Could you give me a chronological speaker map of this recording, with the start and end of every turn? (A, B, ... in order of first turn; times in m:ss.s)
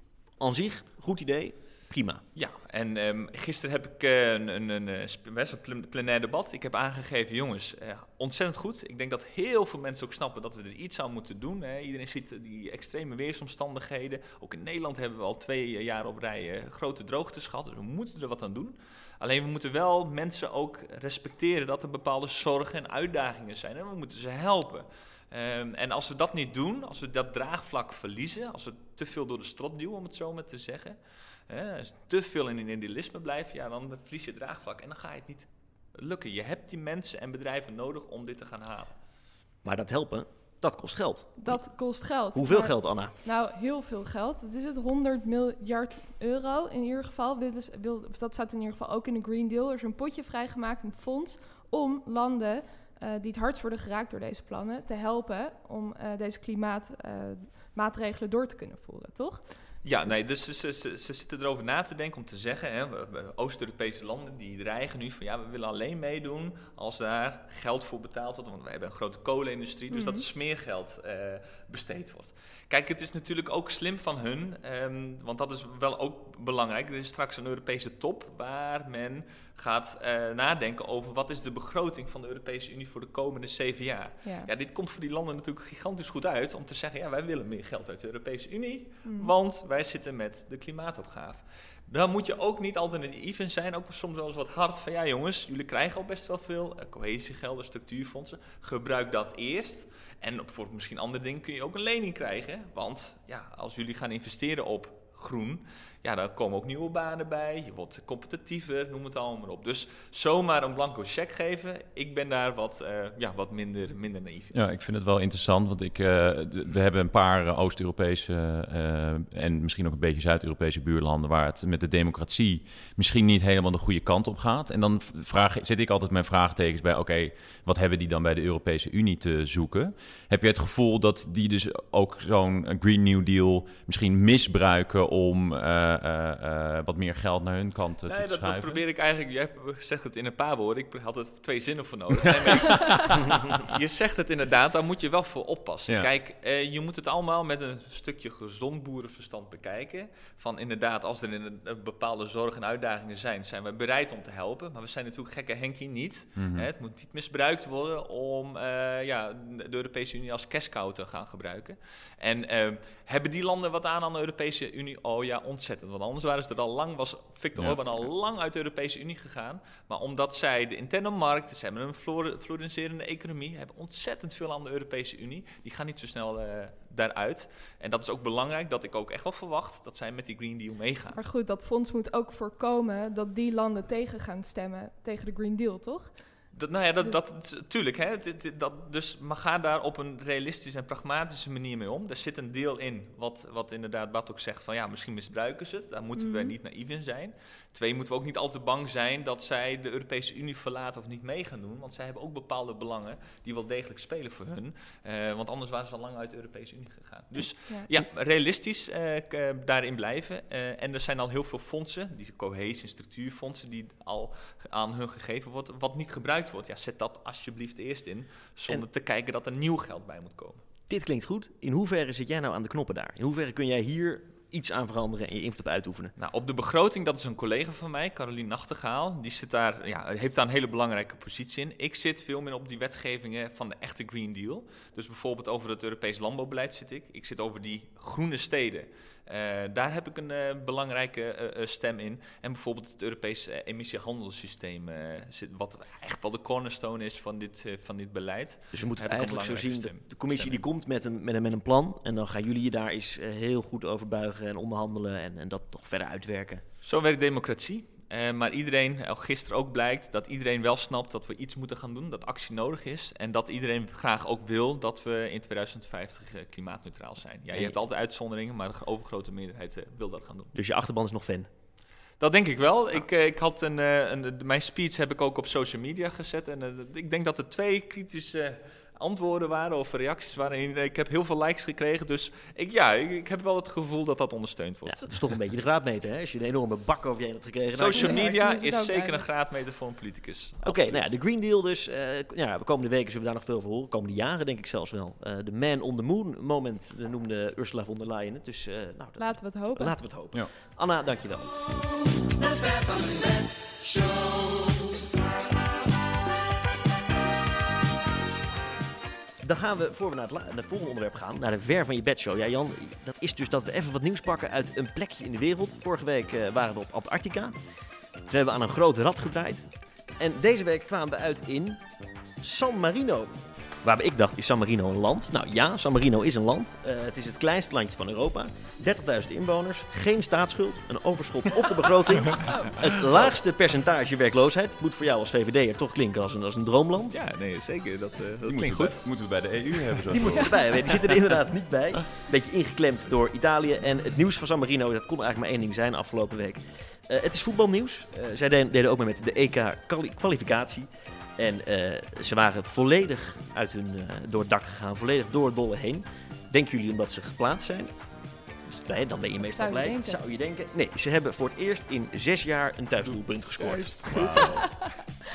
0:00.4-0:02.2 A
0:02.3-0:31.0 B
0:31.5-0:38.9 B
0:39.6-0:43.1 A
0:41.4-0:59.4 C
0:59.8-1:54.5 B
1:09.9-1:10.2 C
1:24.2-1:24.5 C
1:29.0-1:29.3 C
1:54.5-2:18.8 D
2:18.1-3:01.2 B
2:22.3-2:23.1 D
2:36.4-2:36.7 D
3:01.1-3:06.1 C
3:06.5-3:40.6 B
3:16.2-3:16.5 C
3:40.9-3:46.1 A
3:46.2-4:10.6 B
4:08.7-4:16.6 A
4:16.8-4:30.5 B
4:30.5-4:31.5 A
4:32.2-4:45.1 B
4:44.8-4:48.3 A
4:47.7-4:51.1 B
4:47.9-4:49.3 C
4:50.6-5:01.7 A
4:59.2-5:00.0 C
5:09.4-5:17.5 A
5:18.3-5:21.8 A
5:22.4-5:37.1 A
5:32.4-5:32.7 C
5:37.1-5:39.1 B
5:38.4-5:40.6 D
5:40.1-5:57.9 A
5:40.4-5:40.6 C
5:58.6-6:04.5 A
5:59.4-6:00.2 C
6:03.6-6:04.5 B
6:04.0-6:04.7 D
6:04.4-6:04.9 C